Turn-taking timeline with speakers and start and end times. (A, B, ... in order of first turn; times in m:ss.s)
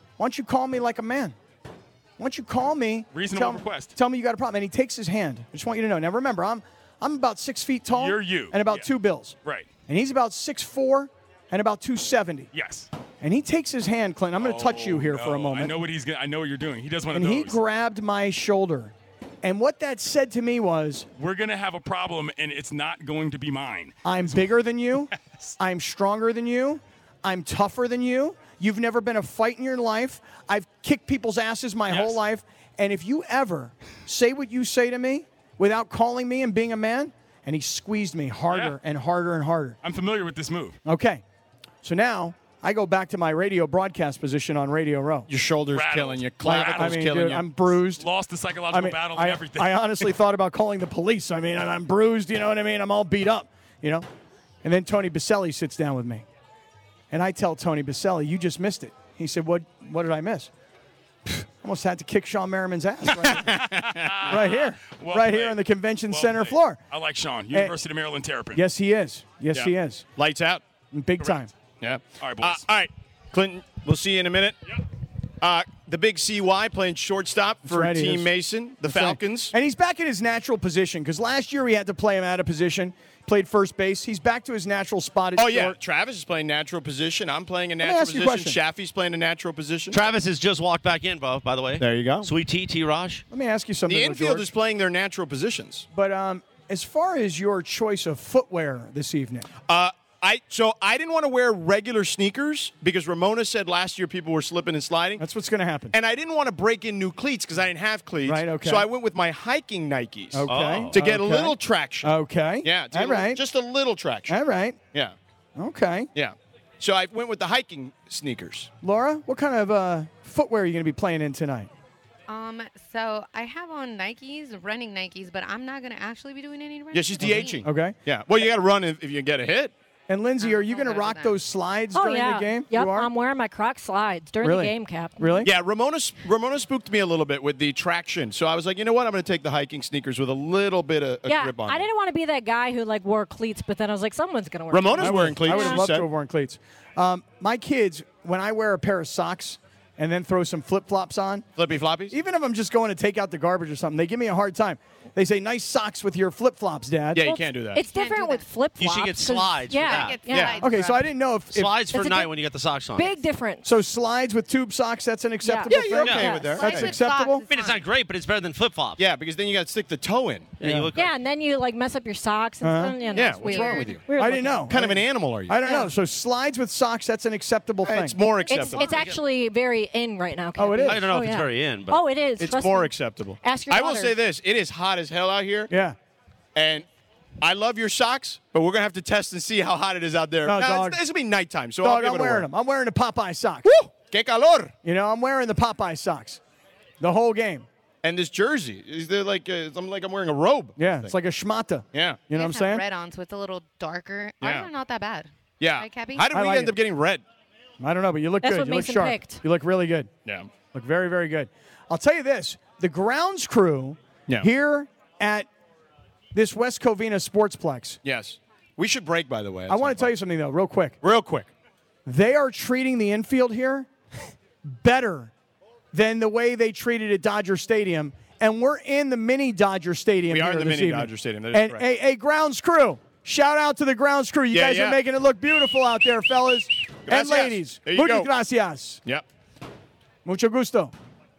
0:00.2-0:01.4 A
0:02.2-0:12.5 A
0:03.1-0:03.9 B
0:07.9-0:08.9 B
0:09.4-0:09.7 B
0:12.5-0:12.9 B
0:13.2-0:15.8 A
0:14.4-0:17.6 B
0:17.1-0:21.1 A
0:21.2-0:24.4 B
0:24.0-0:39.8 A
0:25.2-0:25.5 B
0:31.9-0:32.2 B
0:38.5-0:38.8 B
0:39.8-0:40.8 B
0:40.8-0:41.2 A
0:41.8-0:45.3 A
0:45.3-0:47.5 C
0:45.7-0:47.1 B
0:46.4-0:48.0 A
0:47.9-0:50.1 B
0:48.7-0:54.1 A
0:54.6-0:56.3 A
0:57.1-1:00.5 A
1:01.3-1:03.6 A
1:03.5-1:04.3 C
1:03.7-1:08.6 B
1:04.3-1:06.8 A
1:08.5-1:10.1 A
1:09.5-1:10.6 C
1:10.9-1:11.5 A
1:11.8-1:14.6 C
1:12.2-1:12.6 B
1:15.4-1:19.5 C
1:17.7-1:18.3 A
1:18.8-1:25.8 A
1:25.4-1:30.0 C
1:27.8-1:28.6 A
1:29.9-1:33.2 D
1:31.8-1:32.3 C
1:33.3-1:34.5 A
1:33.9-1:35.9 C
1:35.9-1:39.5 A
1:39.7-1:45.2 C
1:45.2-1:46.0 A
1:45.9-1:54.4 C
1:48.2-1:48.9 A
1:50.3-1:53.4 A
1:50.5-1:51.0 D
1:54.3-1:54.8 A
1:55.6-1:56.1 A
1:56.2-1:58.7 C
1:58.8-2:01.7 A
2:02.3-2:07.6 E
2:06.9-2:09.7 C
2:07.2-2:08.0 A
2:10.1-2:13.1 A
2:10.4-2:11.4 E
2:11.9-2:15.5 F
2:14.4-2:15.5 A
2:15.4-2:21.9 C
2:21.2-2:25.9 F
2:24.7-2:26.1 C
2:25.0-2:31.5 A
2:31.6-2:32.2 C
2:32.1-2:37.4 A
2:37.2-2:37.8 C
2:37.2-2:40.7 F
2:37.8-2:38.5 E
2:38.8-2:40.4 D
2:39.7-2:41.1 E
2:40.3-2:40.6 C
2:40.6-2:41.7 A
2:41.5-2:43.2 D
2:41.9-2:42.3 F
2:43.0-2:43.7 F
2:43.6-2:47.4 A
2:45.4-2:45.7 F
2:45.7-2:46.9 C
2:46.0-2:46.4 D
2:46.2-2:47.9 E
2:47.5-2:49.0 D
2:49.0-2:50.6 C
2:50.6-2:51.1 D
2:50.6-2:50.9 A
2:51.0-2:54.7 F
2:52.6-2:53.0 A
2:53.0-2:54.0 E
2:53.1-2:54.1 C
2:54.2-2:58.2 A
2:54.7-2:55.6 C
2:55.6-2:55.9 F
2:57.8-2:58.9 C
2:58.5-2:58.8 E
2:58.5-3:04.2 F
2:58.7-2:59.2 D
3:00.6-3:01.0 A
3:00.8-3:02.0 D
3:02.4-3:05.7 C
3:05.7-3:06.0 A
3:06.6-3:06.9 C
3:07.4-3:12.5 C
3:10.4-3:11.0 A
3:11.8-3:13.7 A
3:13.6-3:14.7 C
3:14.8-3:16.4 A
3:17.0-3:17.7 A
3:18.0-3:21.2 C
3:20.8-3:22.8 A
3:21.9-3:22.3 C
3:22.3-3:26.3 E
3:24.4-3:24.7 C
3:25.6-3:27.2 C
3:26.3-3:26.8 A
3:27.8-3:30.1 A
3:28.4-3:29.4 F
3:30.2-3:30.5 C
3:30.7-3:35.5 A
3:36.3-3:38.0 A
3:38.0-3:40.1 C
3:39.7-3:41.0 A
3:41.0-3:41.5 C
3:42.1-3:43.9 A
3:44.6-3:45.3 A
3:45.9-3:59.0 A
3:50.3-3:51.8 C
3:54.5-3:55.0 C
3:57.1-3:58.3 C
4:00.2-4:00.9 A